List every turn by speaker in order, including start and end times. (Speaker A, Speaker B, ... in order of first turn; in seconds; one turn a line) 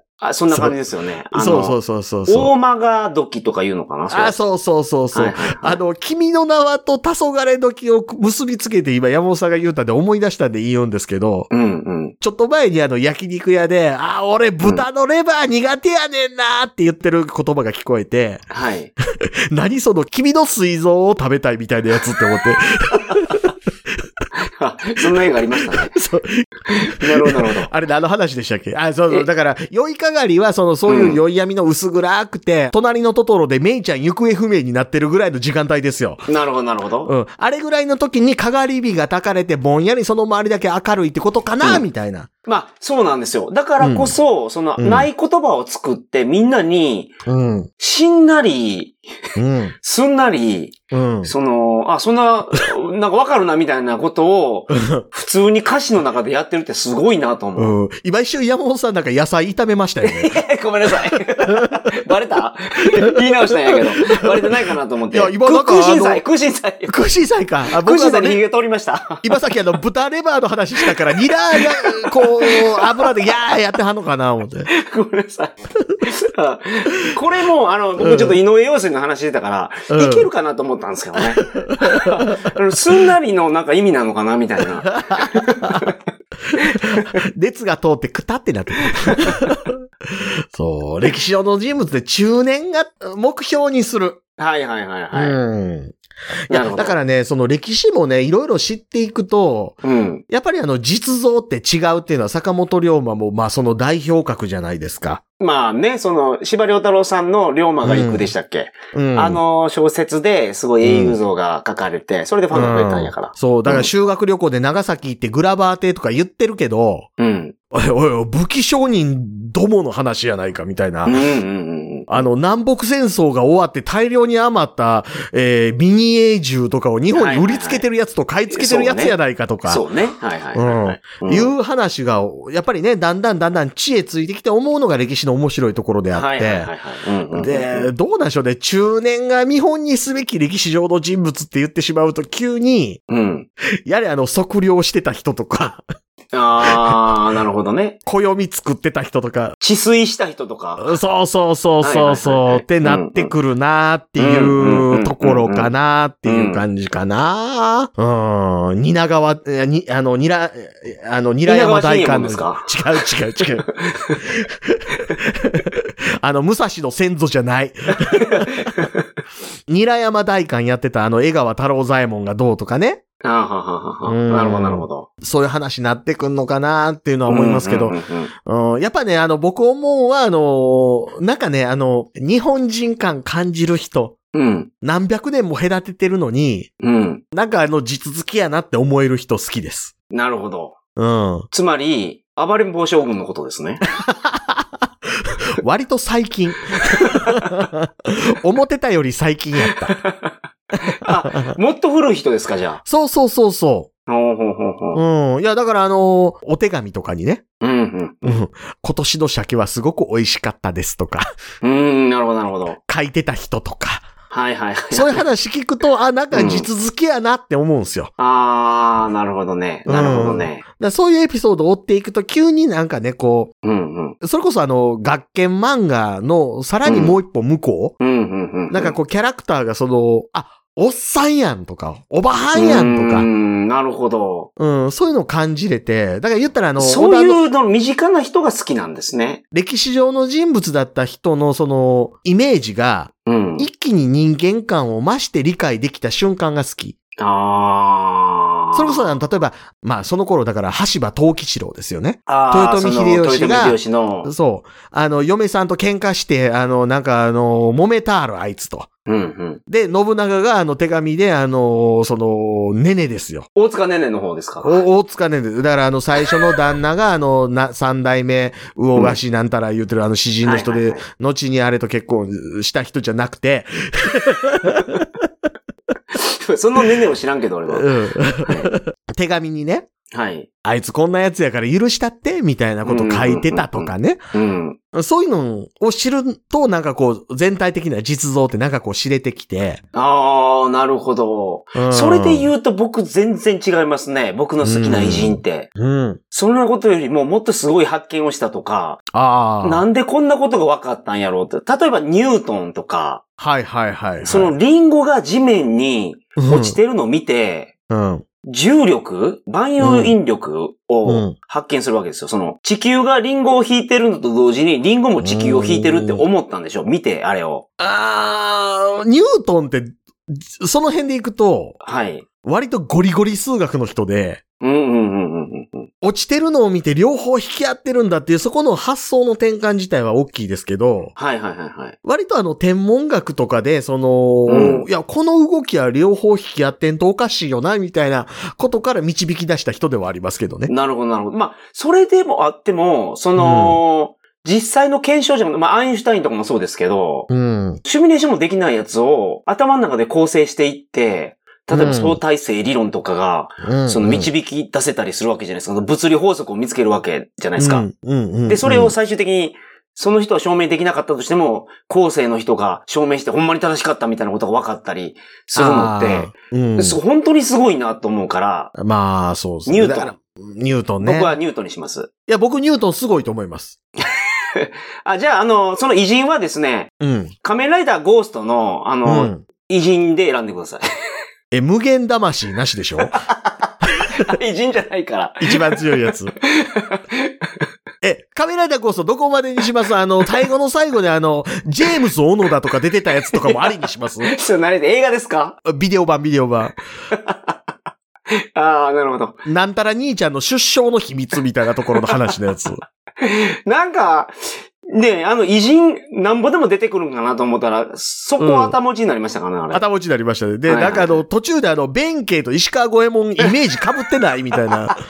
Speaker A: 0.2-4.3
Speaker B: 1.3-2.5
Speaker B: 4.1-11.5
Speaker A: 5.1-5.8
Speaker A: 11.5-12.1
Speaker B: 12.2-18.4
Speaker A: 18.5-18.9
Speaker B: 19.2-23.4
Speaker A: 22.9-23.3
Speaker A: 24.5-25.9
Speaker B: 25.6-36.3
Speaker A: 26.7-27.7
Speaker A: 30.9-31.2
Speaker A: 36.3-37.1
Speaker B: 37.0-42.3
Speaker A: 42.5-47.2
Speaker B: 43.8-44.1
Speaker B: 44.8-45.1
Speaker B: 47.2-47.7
Speaker A: 47.8-49.0
Speaker B: 49.4-49.7
Speaker A: 49.8-57.7
Speaker B: 50.9-51.3
Speaker B: 54.7-55.0
Speaker B: 57.5-60.4
Speaker A: 60.0-67.1
Speaker B: 61.4-61.8
Speaker B: 63.7-64.5
Speaker B: 65.1-66.2
Speaker B: 66.9-68.4
Speaker A: 67.7-69.6
Speaker B: 69.2-74.7
Speaker A: 70.8-73.1
Speaker A: 74.7-85.9
Speaker B: 78.0-78.4
Speaker B: 79.9-80.3
Speaker B: 81.2-82.5
Speaker B: 84.8-85.9
Speaker B: 86.7-94.2
Speaker A: 94.4-95.4
Speaker B: 95.1-96.0
Speaker B: 96.5-105.2
Speaker A: 96.5-97.0
Speaker A: 99.8-100.2
Speaker A: 105.4-113.9
Speaker B: 107.8-108.3
Speaker B: 108.9-109.4
Speaker B: 110.8-111.2
Speaker B: 112.5-117.1
Speaker A: 117.2-117.5
Speaker B: 117.7-121.2
Speaker A: 121.0-122.2
Speaker B: 122.1-129.8
Speaker A: 127.1-127.8
Speaker A: 128.5-129.1
Speaker A: 129.7-131.5
Speaker B: 130.5-136.7
Speaker A: 136.1-137.9
Speaker B: 137.3-143.0
Speaker A: 143.1-143.5
Speaker B: 143.8-145.8
Speaker A: 146.3-147.9
Speaker B: 148.1-149.5
Speaker A: 149.6-151.0
Speaker B: 150.8-163.7
Speaker A: 151.8-153.3
Speaker A: 154.2-155.7
Speaker A: 156.2-156.6
Speaker A: 161.4-163.1
Speaker A: 163.7-164.2
Speaker B: 164.2-168.7
Speaker A: 168.2-169.0
Speaker B: 169.7-173.0
Speaker A: 173.2-175.1
Speaker B: 174.1-184.2
Speaker A: 177.3-178.3
Speaker A: 184.3-184.7
Speaker B: 184.8-186.7
Speaker A: 186.8-187.2
Speaker B: 187.3-189.9
Speaker A: 190.1-190.8
Speaker B: 191.0-191.5
Speaker A: 191.5-193.8
Speaker B: 194.1-194.6
Speaker B: 195.2-200.0
Speaker A: 199.7-202.8
Speaker B: 201.3-201.5
Speaker B: 202.8-203.9
Speaker A: 204.1-205.0
Speaker B: 204.9-207.4
Speaker A: 207.6-208.4
Speaker B: 208.2-211.3
Speaker A: 211.6-212.8
Speaker B: 212.9-214.1
Speaker A: 214.3-215.2
Speaker B: 214.9-218.1
Speaker A: 216.3-216.7
Speaker A: 218.2-220.6
Speaker B: 219.8-223.5
Speaker A: 223.6-224.2
Speaker B: 224.2-228.0
Speaker A: 226.8-227.2
Speaker A: 228.0-228.9
Speaker B: 228.7-233.3
Speaker A: 232.5-234.5
Speaker B: 234.6-237.4
Speaker A: 236.8-239.4
Speaker B: 239.5-246.9
Speaker A: 243.2-243.7
Speaker A: 247.2-249.0
Speaker B: 248.7-258.9
Speaker A: 252.3-254.3
Speaker A: 259.1-259.6
Speaker B: 259.7-263.5
Speaker A: 263.5-264.8
Speaker B: 264.6-275.1
Speaker A: 270.4-271.0
Speaker A: 276.1-278.7
Speaker B: 277.7-279.9
Speaker A: 280.1-280.5
Speaker B: 280.6-284.2
Speaker A: 282.8-284.8
Speaker B: 284.9-289.8
Speaker A: 289.9-295.7
Speaker B: 291.7-292.5
Speaker B: 294.6-296.2
Speaker A: 296.3-299.0
Speaker B: 299.1-299.8
Speaker A: 299.6-303.2
Speaker B: 303.4-304.5
Speaker A: 304.2-307.7
Speaker B: 306.4-306.8
Speaker B: 307.9-308.2
Speaker A: 308.4-317.6
Speaker B: 309.8-310.1
Speaker B: 311.0-311.4
Speaker B: 315.2-316.3
Speaker B: 317.8-321.8
Speaker A: 321.8-322.2
Speaker B: 322.4-324.4
Speaker A: 324.6-325.9
Speaker B: 326.0-331.1
Speaker A: 331.1-331.9
Speaker B: 332.0-340.7
Speaker A: 334.5-334.9
Speaker A: 340.7-347.3
Speaker B: 343.4-343.8
Speaker B: 347.3-347.8
Speaker A: 347.8-357.8
Speaker B: 351.7-352.2
Speaker B: 353.6-354.3
Speaker B: 357.6-358.9
Speaker A: 358.5-368.7
Speaker B: 365.6-367.0
Speaker B: 368.8-371.4
Speaker A: 369.6-370.1
Speaker A: 371.0-372.1
Speaker B: 372.3-373.8
Speaker A: 374.1-376.9
Speaker B: 377.0-377.3
Speaker A: 377.4-380.8
Speaker B: 379.0-379.4
Speaker B: 381.5-383.2
Speaker A: 383.3-387.5
Speaker B: 385.4-386.3
Speaker B: 388.0-394.3
Speaker A: 393.3-395.6
Speaker B: 395.6-396.8
Speaker A: 397.1-397.7
Speaker A: 398.5-399.4
Speaker B: 399.4-402.8
Speaker A: 402.0-402.3
Speaker A: 403.2-404.3
Speaker A: 404.9-409.8
Speaker B: 408.4-408.8
Speaker B: 409.7-415.0
Speaker A: 410.6-411.2
Speaker A: 414.5-414.9